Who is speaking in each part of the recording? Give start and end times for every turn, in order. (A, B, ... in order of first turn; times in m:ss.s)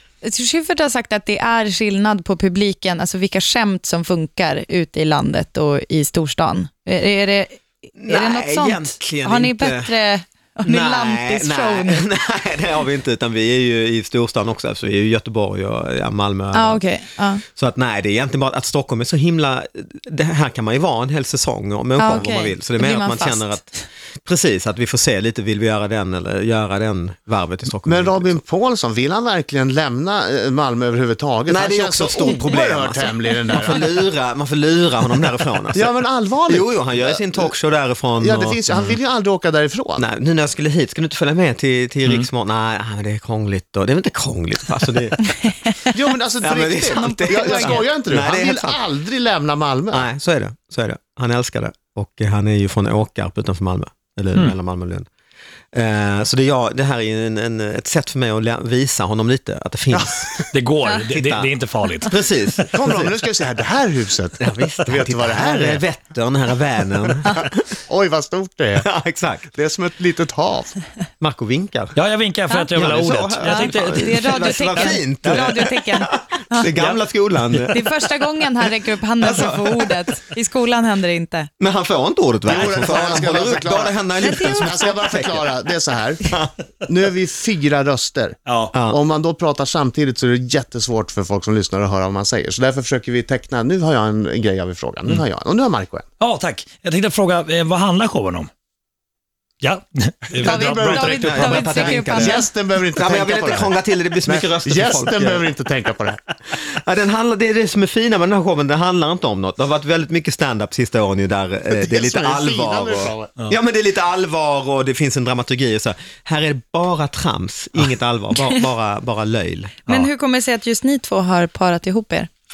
0:00.2-0:12.1 A
0:08.0-0:10.0 B
0:10.6-0:16.9 B
0:16.5-0:17.4 A
0:17.5-0:28.4 B
0:22.0-0:23.8 A
0:27.8-0:34.0 C
0:31.5-0:36.0 B
0:35.7-0:37.5 C
0:36.5-0:39.0 B
0:38.2-0:40.0 C
0:40.0-0:45.5 B
0:45.9-0:50.1 C
0:46.4-0:48.8 B
0:46.9-0:47.8 A
0:49.9-0:55.1 B
0:55.7-1:00.5 B
0:59.9-1:00.4 C
1:00.5-1:02.9 D
1:01.1-1:01.5 B
1:02.1-1:03.1 B
1:02.7-1:05.8 C
1:04.4-1:07.6 B
1:07.9-1:08.9 C
1:08.8-1:09.5 B
1:09.5-1:10.7 C
1:11.2-1:12.0 B
1:12.0-1:14.6 D
1:12.7-1:18.3 B
1:13.5-1:16.7 A
1:16.6-1:17.8 D
1:17.7-1:21.5 A
1:19.2-1:20.2 B
1:21.6-1:25.4 B
1:22.5-1:24.0 C
1:24.2-1:25.1 A
1:24.6-1:26.3 C
1:26.2-1:26.5 B
1:26.8-1:36.0 C
1:28.5-1:28.7 D
1:36.2-1:38.5 D
1:39.6-1:42.0 D
1:40.4-1:43.7 C
1:40.4-1:42.5 A
1:41.2-1:45.5 B
1:44.2-1:46.2 C
1:46.5-1:59.9 B
1:51.8-1:53.3 C
1:59.9-2:02.3 A